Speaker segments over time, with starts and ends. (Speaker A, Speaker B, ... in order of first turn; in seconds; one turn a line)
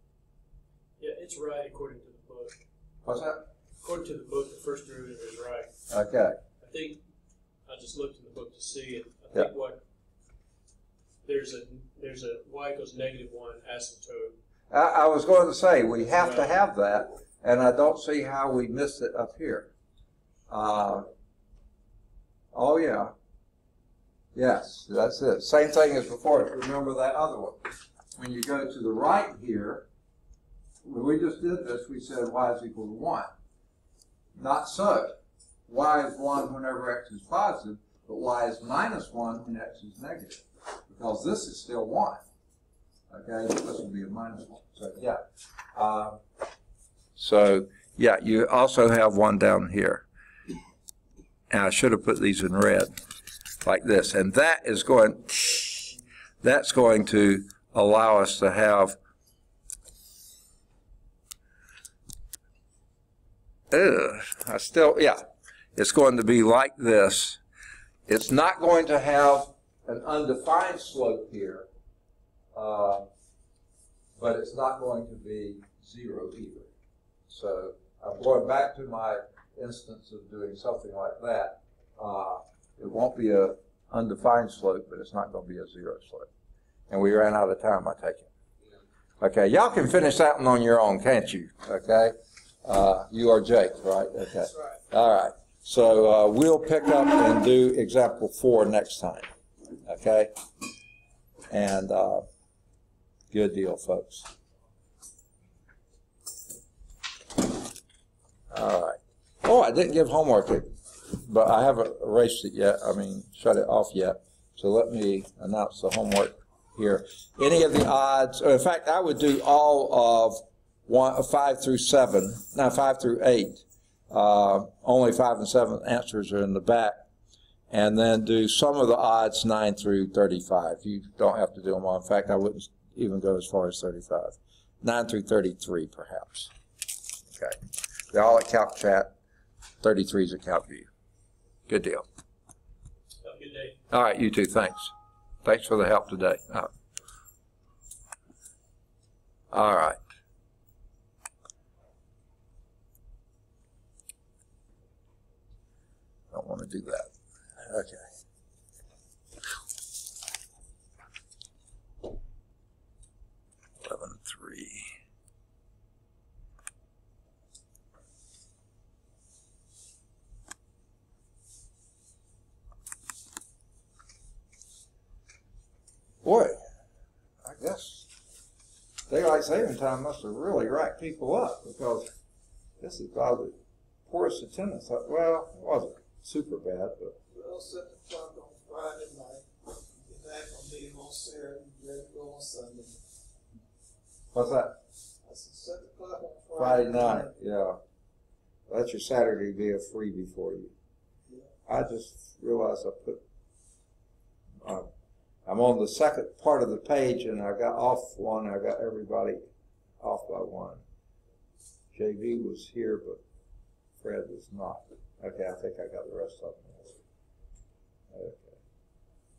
Speaker A: 1.0-2.6
Speaker B: 3.0-3.4
Speaker A: 3.8-5.8
Speaker B: 5.9-6.4
Speaker A: 6.6-7.0
Speaker A: 7.7-9.8
Speaker A: 11.2-14.4
Speaker B: 14.7-19.7
Speaker A: 16.2-16.5
Speaker B: 20.5-21.1
Speaker B: 22.5-23.1
Speaker B: 24.4-29.9
Speaker B: 30.8-33.3
Speaker B: 34.4-42.2
Speaker B: 43.1-45.2
Speaker B: 45.8-46.2
Speaker B: 47.2-50.1
Speaker B: 51.5-52.9
Speaker B: 53.6-59.0
Speaker B: 63.7-65.2
Speaker B: 65.8-67.4
Speaker B: 68.1-71.7
Speaker B: 72.5-73.1
Speaker B: 74.2-76.7
Speaker B: 77.3-86.3
Speaker B: 86.9-88.3
Speaker B: 89.2-99.3
Speaker B: 99.8-100.3
Speaker B: 101.5-102.3
Speaker B: 103.3-104.3
Speaker B: 108.5-127.0
Speaker B: 127.7-136.5
Speaker B: 137.3-137.6
Speaker B: 138.1-139.1
Speaker B: 139.8-140.9
Speaker B: 141.7-142.0
Speaker A: 143.2-143.8
Speaker B: 143.9-144.9
Speaker B: 145.4-146.7
Speaker B: 149.5-150.0
Speaker B: 156.3-158.0
Speaker B: 163.8-164.9
Speaker B: 176.2-176.6
Speaker B: 177.4-178.1
Speaker B: 179.1-182.1
Speaker B: 182.8-183.6
Speaker B: 184.1-187.2
Speaker C: 187.3-193.0
Speaker B: 194.3-194.8
Speaker C: 195.2-197.3
Speaker B: 196.6-197.8
Speaker B: 198.7-200.7
Speaker B: 201.7-203.2
Speaker B: 204.6-204.9
Speaker B: 205.5-209.4
Speaker B: 210.0-210.8
Speaker B: 211.9-213.2
Speaker B: 214.0-217.0
Speaker B: 218.1-218.6